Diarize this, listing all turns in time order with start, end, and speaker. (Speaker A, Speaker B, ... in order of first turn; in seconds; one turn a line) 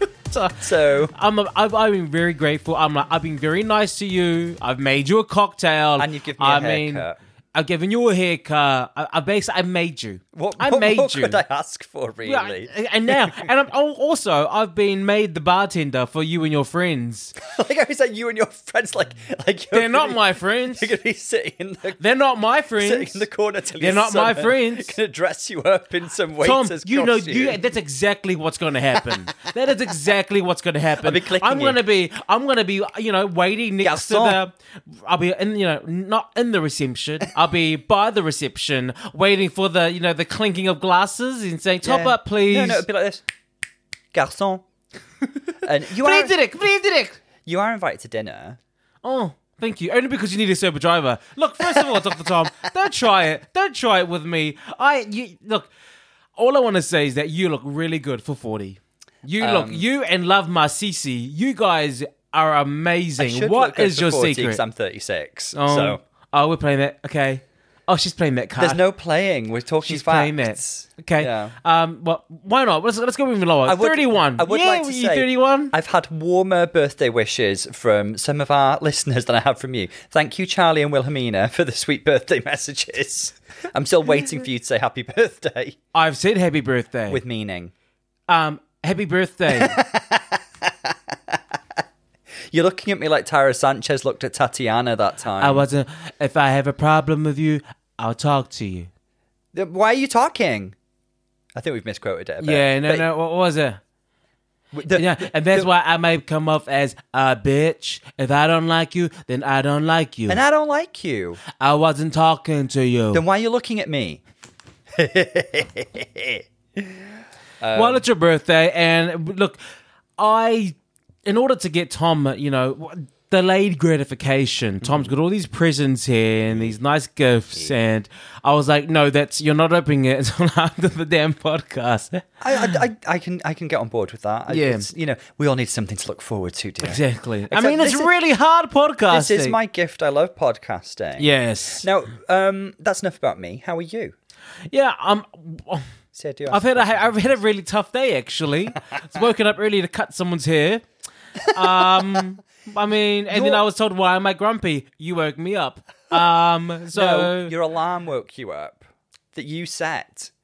Speaker A: 0.3-11.4
Speaker B: 0.6-1.1
Speaker B: 6.0-7.2
Speaker B: 10.3-13.4
Speaker A: 12.2-17.4
Speaker B: 17.4-22.0
Speaker A: 19.7-20.9
Speaker A: 22.0-23.2
Speaker B: 22.8-27.6
Speaker A: 23.8-25.0
Speaker A: 26.4-42.8
Speaker B: 31.0-31.8
Speaker B: 33.8-34.4
Speaker B: 41.8-43.2
Speaker B: 44.1-44.6
Speaker B: 45.6-46.3
Speaker A: 45.9-47.2
Speaker B: 47.4-48.6
Speaker A: 49.0-55.7
Speaker A: 56.4-64.6
Speaker B: 59.4-59.9
Speaker B: 63.2-66.0
Speaker A: 65.5-68.8
Speaker B: 68.6-71.6
Speaker A: 69.8-75.7
Speaker B: 73.7-85.8
Speaker A: 85.9-87.2
Speaker B: 87.1-87.7
Speaker A: 88.3-89.8
Speaker B: 89.5-91.8
Speaker B: 92.5-95.7
Speaker A: 95.4-98.9
Speaker B: 99.5-100.8
Speaker B: 101.5-103.1
Speaker A: 102.4-103.8
Speaker B: 104.7-105.7
Speaker A: 104.9-110.4
Speaker B: 110.3-111.4
Speaker A: 111.6-113.2
Speaker B: 113.1-114.2
Speaker B: 115.0-117.0
Speaker B: 117.6-118.0
Speaker A: 117.7-119.6
Speaker A: 120.2-120.8
Speaker A: 121.3-132.8
Speaker B: 124.8-125.1
Speaker B: 126.5-126.8
Speaker B: 132.4-138.1
Speaker A: 134.5-134.9
Speaker A: 136.8-139.6
Speaker B: 139.1-141.3
Speaker A: 141.2-141.9
Speaker B: 141.8-144.2
Speaker A: 144.7-145.9
Speaker B: 146.1-147.1
Speaker A: 146.5-150.8
Speaker B: 151.5-152.2
Speaker A: 151.5-157.5
Speaker B: 153.3-153.6
Speaker B: 156.9-158.8
Speaker B: 159.3-160.3